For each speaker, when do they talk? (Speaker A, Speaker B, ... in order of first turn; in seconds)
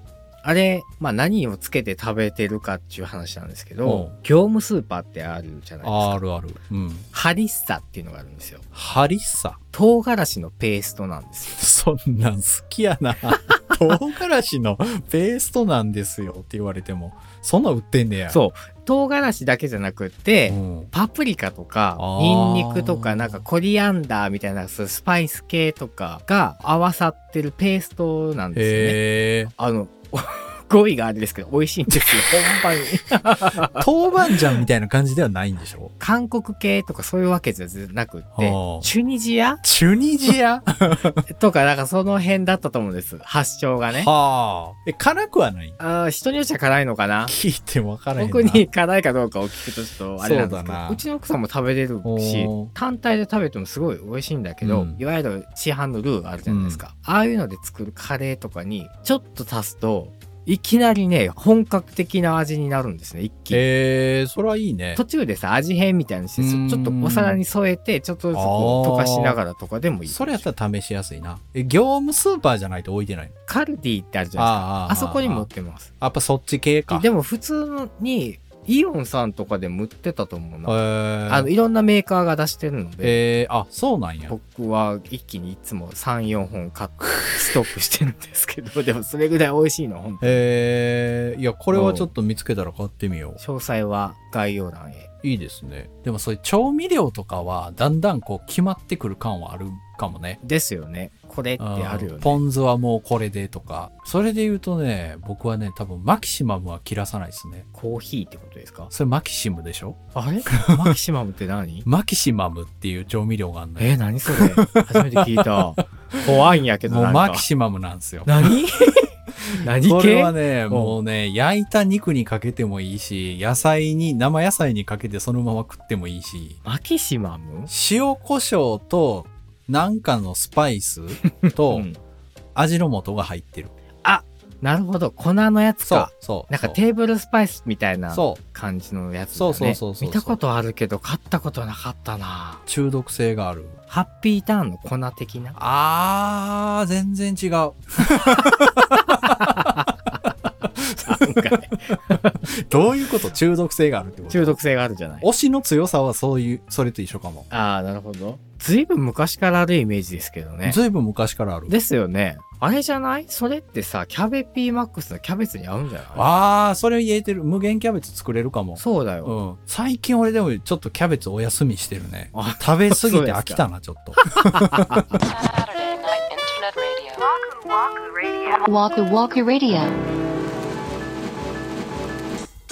Speaker A: 0.4-6.2, 7.1-8.7, 9.7-11.6, 18.3-29.0, 29.5-33.9, 36.0-39.6, 41.3-44.1, 45.8-47.3, 48.2-63.6, 65.0-70.5, 73.5-75.9, 76.9-83.2, 84.3-90.4, 91.7-92.1, 93.4-95.1, 100.4-102.4, 107.7-108.9, 110.1-111.9, 113.8-117.5, 118.2-121.0, 126.6-127.7, 131.7-132.0, 134.0-142.6, 143.9-145.6, 149.1-149.9, 151.0-152.4, 154.3-155.3, 157.5-160.8, 161.7-166.3, 168.8-169.4, 172.3-173.7, 174.2-175.1
Speaker B: 3.8-4.2, 5.8-7.1, 8.7-9.6, 11.5-18.4, 20.5-20.9, 22.0-23.4, 28.5-29.5, 33.7-35.9, 38.4-38.9, 39.6-41.2, 43.9-45.8, 47.3-48.7, 50.2-51.0, 52.0-52.7, 54.6-55.0, 56.5-56.8, 63.5-65.0, 66.4-67.4, 68.3-69.4, 70.1-73.3, 74.4-75.5, 76.0-77.1, 80.7-81.5, 83.0-84.3, 90.2-93.4, 95.2-100.4, 101.6-107.7, 108.9-111.0, 111.8-116.3, 116.8-118.6, 119.4-126.6, 127.7-131.9, 132.6-133.7, 135.8-136.8, 138.1-138.4, 139.3-140.4, 142.7-143.8, 145.6-149.7, 150.8-151.9, 152.5-154.6, 155.2-157.5, 160.7-161.8, 166.1-175.1
Speaker C: 175.1-177.3, 178.6-179.9